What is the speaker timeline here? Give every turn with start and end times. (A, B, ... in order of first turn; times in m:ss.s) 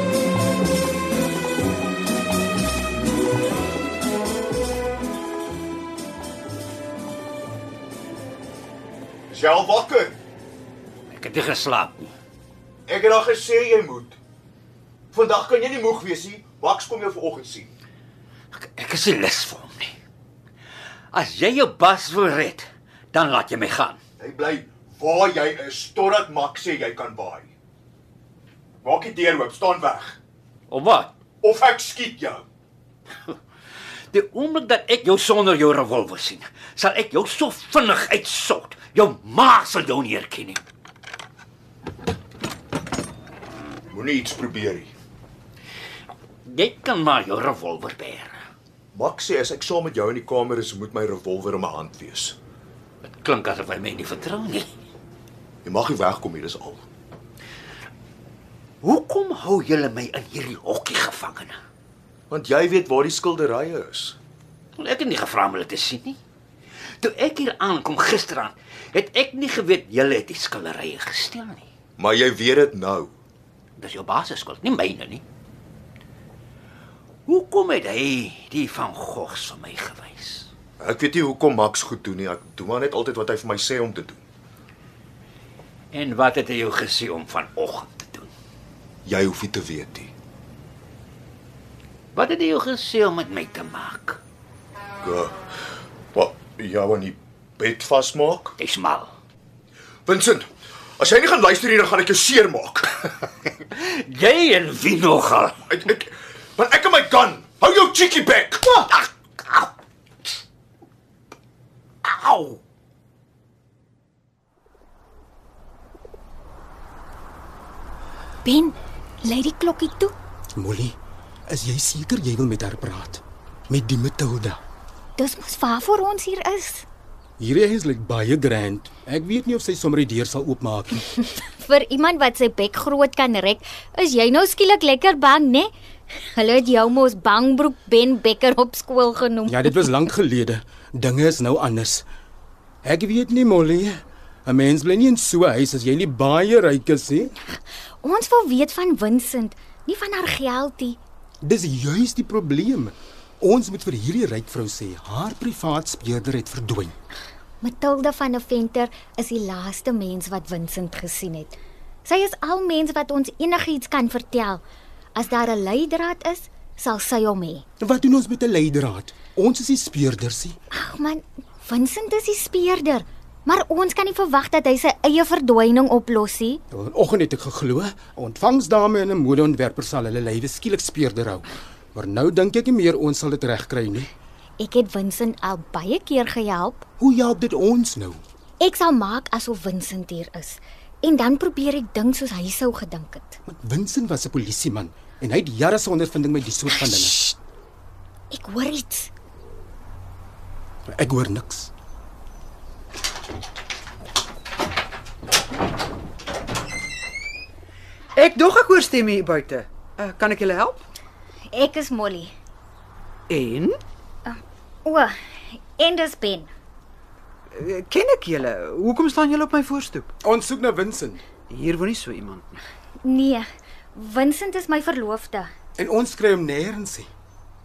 0:09.3-0:10.2 A
0:11.1-0:12.1 B
0:12.9-0:14.2 A
0:15.1-0:17.7 A
0:18.6-0:19.9 B
0:21.1-0:24.0 B
0:24.2-0:27.5 A
0:28.8-0:30.2 A
0:30.7-0:31.1 B
0:31.4-0:32.4 A
0:34.1-0:40.6 B
0:43.9-0:44.9 A
0:46.4-0:48.4 B
0:48.9-0:52.4 A
0:53.0-0:54.7 B
0:55.6-0:56.8 A
0:58.8-1:01.6 B
1:02.3-1:04.2 A
1:04.8-1:06.2 B
1:07.0-1:11.6 B
1:12.0-1:13.1 A
1:13.8-1:15.2 B
1:17.3-1:20.5 B
1:20.8-1:24.2 A
1:25.9-1:28.3 B
1:29.0-1:30.1 A
1:32.1-1:34.2 B
1:35.0-1:35.3 A
1:36.1-1:38.6 A
1:38.6-1:39.1 B
1:40.0-1:40.5 A
1:41.0-1:43.1 A
1:43.7-1:45.6 B
1:45.7-1:48.9 A
1:52.0-1:52.6 B
1:58.4-2:00.1 C
2:00.6-2:00.9 D
2:01.5-2:04.6 D
2:05.2-2:06.8 C
2:07.4-2:11.0 D
2:11.6-2:15.7 C
2:16.2-2:19.9 C
2:19.5-2:22.0 D
2:22.8-2:27.3 D
2:28.0-2:31.0 C
2:31.4-2:36.9 D
2:37.6-2:44.6 C
2:45.1-2:47.6 C
2:47.8-2:50.5 D
2:50.7-2:56.6 C
2:56.7-3:04.1 D
3:04.6-3:06.8 C
3:07.0-3:08.2 D
3:08.6-3:13.4 C
3:13.5-3:17.3 D
3:18.3-3:19.1 C
3:21.0-3:21.7 D
3:28.1-3:30.8 E
3:31.5-3:32.3 C
3:33.3-3:33.8 E
3:34.2-3:35.1 C
3:35.8-3:36.5 C
3:37.5-3:40.1 E
3:40.2-3:41.2 D
3:41.5-3:42.6 E
3:43.0-3:45.5 C
3:45.8-3:47.1 D